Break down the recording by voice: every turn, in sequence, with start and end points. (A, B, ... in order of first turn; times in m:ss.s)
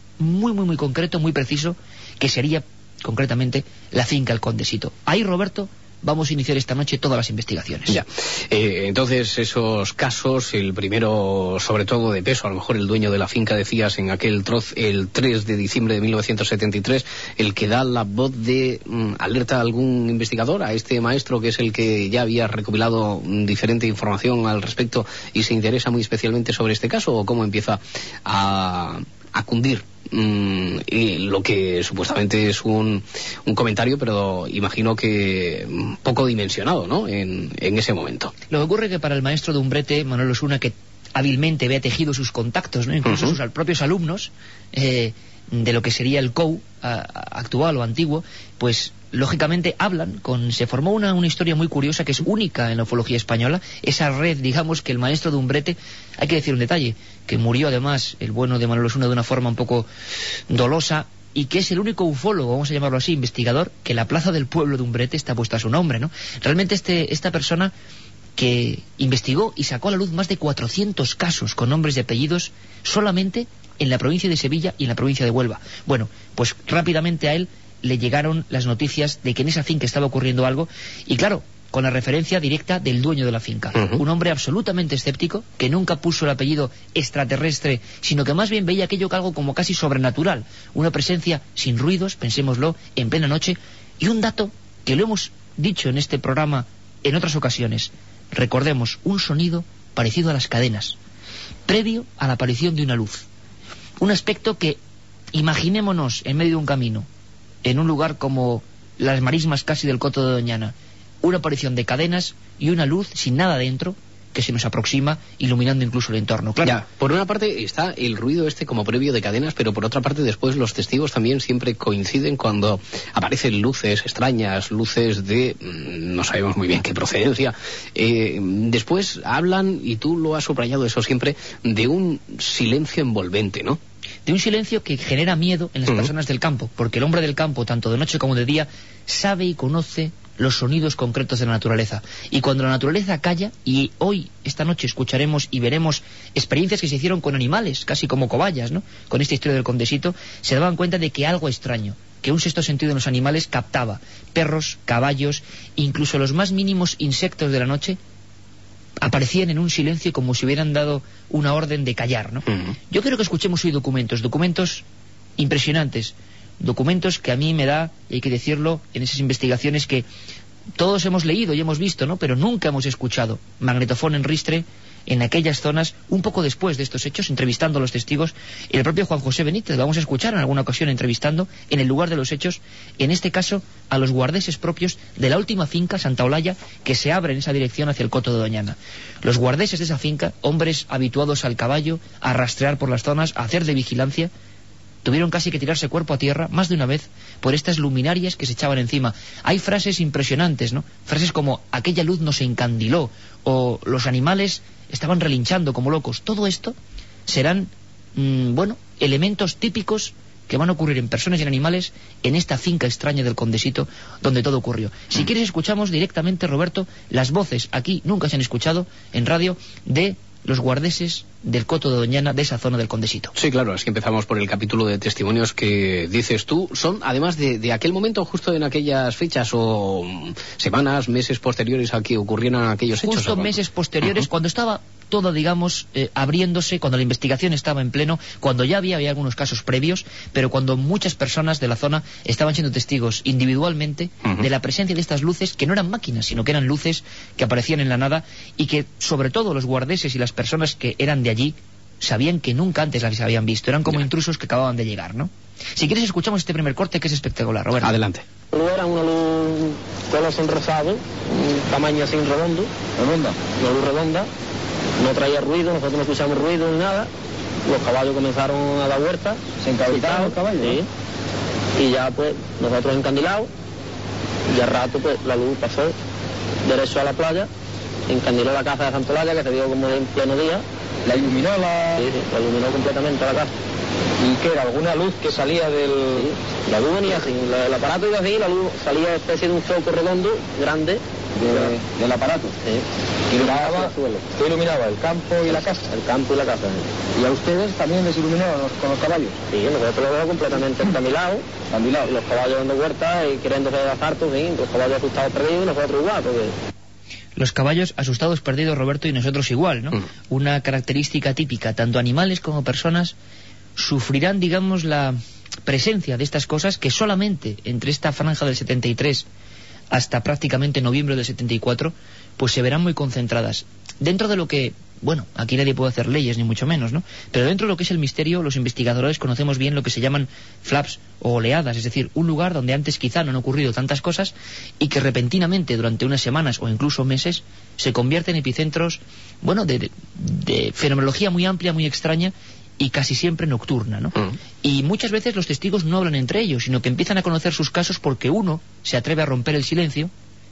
0:00.2-0:08.0 A
0:07.9-0:38.3 B
0:38.5-0:59.9 A
0:43.1-0:43.4 B
1:00.5-1:07.7 A
1:08.4-1:41.0 A
1:41.7-1:43.3 A
1:44.0-1:44.8 A
1:45.3-1:47.1 A
1:47.6-1:56.8 A
1:56.6-2:13.8 B
2:14.3-2:38.0 A
2:39.0-2:44.8 A
2:42.5-2:42.7 B
2:45.4-2:50.0 A
2:50.8-3:14.3 A
3:15.0-3:26.8 A
3:27.3-3:43.3 A
3:43.4-3:53.5 B
3:53.0-4:17.9 A
4:17.8-4:18.2 B
4:18.5-4:22.7 C
4:23.0-4:23.4 D
4:23.6-4:24.3 C
4:25.0-4:27.1 C
4:27.6-4:30.9 C
4:29.6-4:30.8 D
4:31.8-4:33.5 C
4:34.5-4:36.0 C
4:36.6-4:37.5 C
4:38.1-4:40.6 C
4:41.1-4:42.0 D
4:42.0-4:43.5 C
4:44.2-4:46.3 D
4:46.2-4:51.7 C
4:51.4-4:52.5 D
4:52.6-4:54.2 C
4:53.3-4:55.8 D
4:55.5-4:56.9 C
4:57.2-4:59.4 D
4:59.5-5:01.4 C
5:01.7-5:02.2 D
5:02.0-5:06.6 C
5:07.4-5:13.2 A
5:13.8-5:19.3 A
5:19.9-5:50.1 A